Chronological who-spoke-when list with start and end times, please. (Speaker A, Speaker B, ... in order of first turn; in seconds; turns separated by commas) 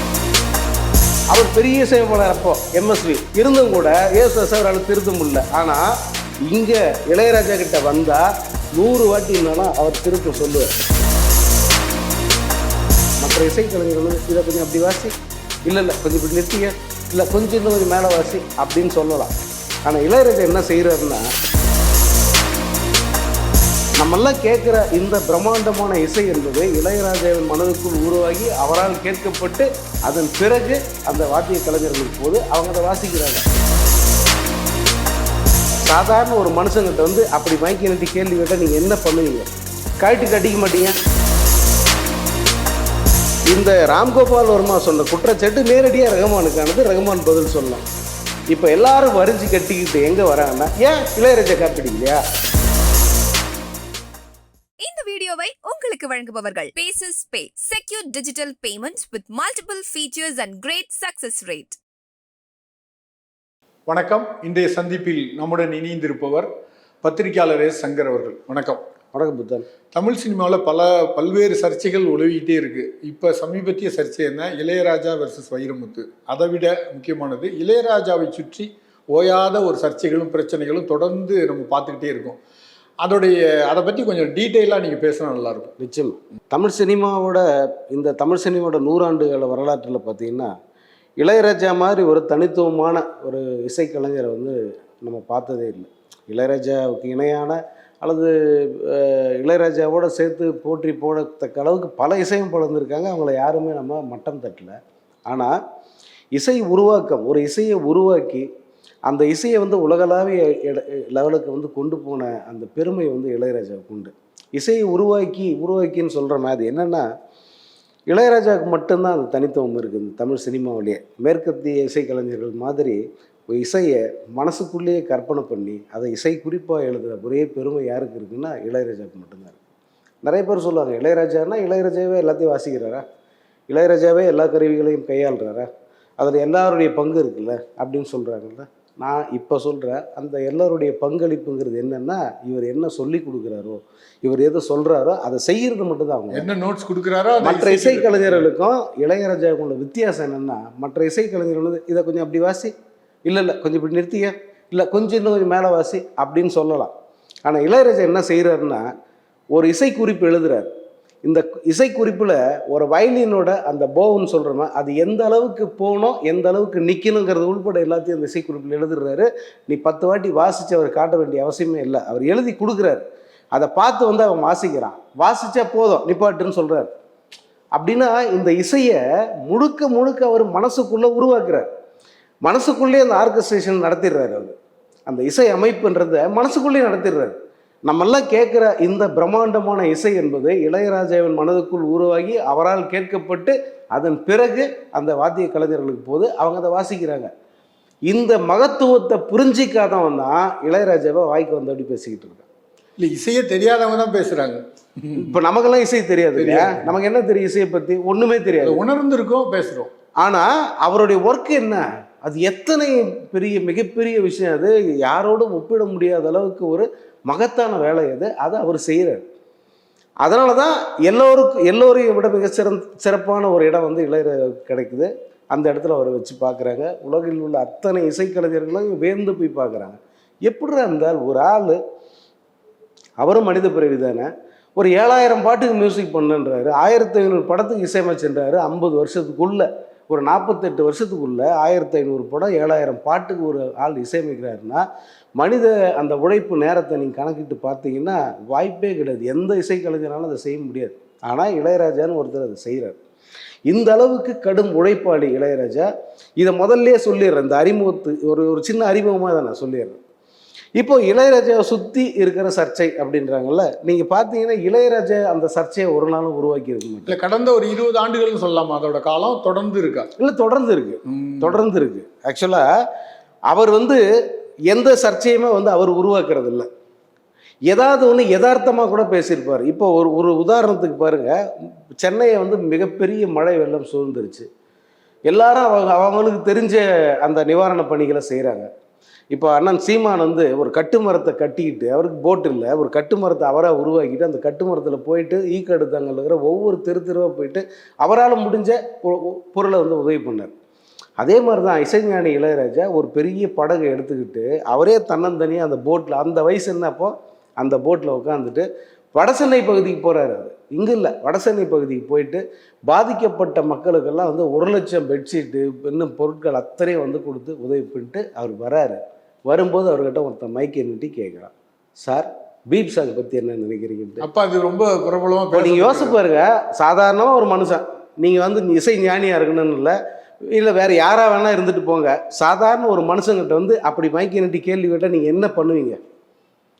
Speaker A: 1.3-5.9, Speaker A: 6.5-10.7, Speaker A: 13.2-15.1, Speaker A: 15.7-19.3, Speaker A: 19.8-21.3, Speaker A: 24.0-33.4, Speaker A: 35.9-39.5, Speaker A: 40.0-41.0, Speaker A: 43.5-47.8, Speaker A: 48.5-52.2, Speaker B: 54.8-61.8, Speaker C: 63.9-66.5, Speaker C: 67.0-68.8, Speaker A: 69.1-69.7, Speaker C: 69.9-82.4, Speaker C: 83.0-85.7, Speaker A: 85.8-90.5, Speaker A: 91.2-104.8, Speaker A: 105.3-105.5, Speaker A: 106.3-108.5, Speaker A: 109.1-117.1, Speaker A: 118.1-129.6, Speaker A: 130.2-133.0, Speaker A: 133.7-135.7, Speaker A: 136.2-146.5, Speaker C: 146.3-148.5, Speaker A: 147.4-152.7, Speaker A: 153.2-156.9, Speaker A: 157.4-158.9, Speaker A: 159.5-160.7, Speaker A: 161.2-176.9, Speaker A: 177.7-181.7, Speaker A: 182.4-184.5, Speaker A: 185.1-197.3, Speaker A: 198.1-202.4, Speaker C: 203.0-205.3, Speaker A: 205.2-208.8, Speaker C: 206.3-206.9, Speaker C: 208.6-209.9, Speaker A: 210.2-219.2, Speaker A: 220.2-231.8, Speaker A: 233.2-244.8, Speaker A: 245.4-252.9, Speaker A: 253.7-260.0, Speaker A: 260.8-267.1, Speaker C: 267.1-270.1, Speaker A: 270.2-272.7, Speaker C: 271.1-271.6, Speaker A: 273.5-274.0, Speaker A: 274.7-276.7, Speaker A: 277.7-284.5, Speaker A: 285.3-288.7, Speaker A: 289.3-300.5, Speaker A: 301.2-324.2, Speaker C: 324.2-326.2, Speaker A: 325.5-329.9, Speaker A: 330.5-336.0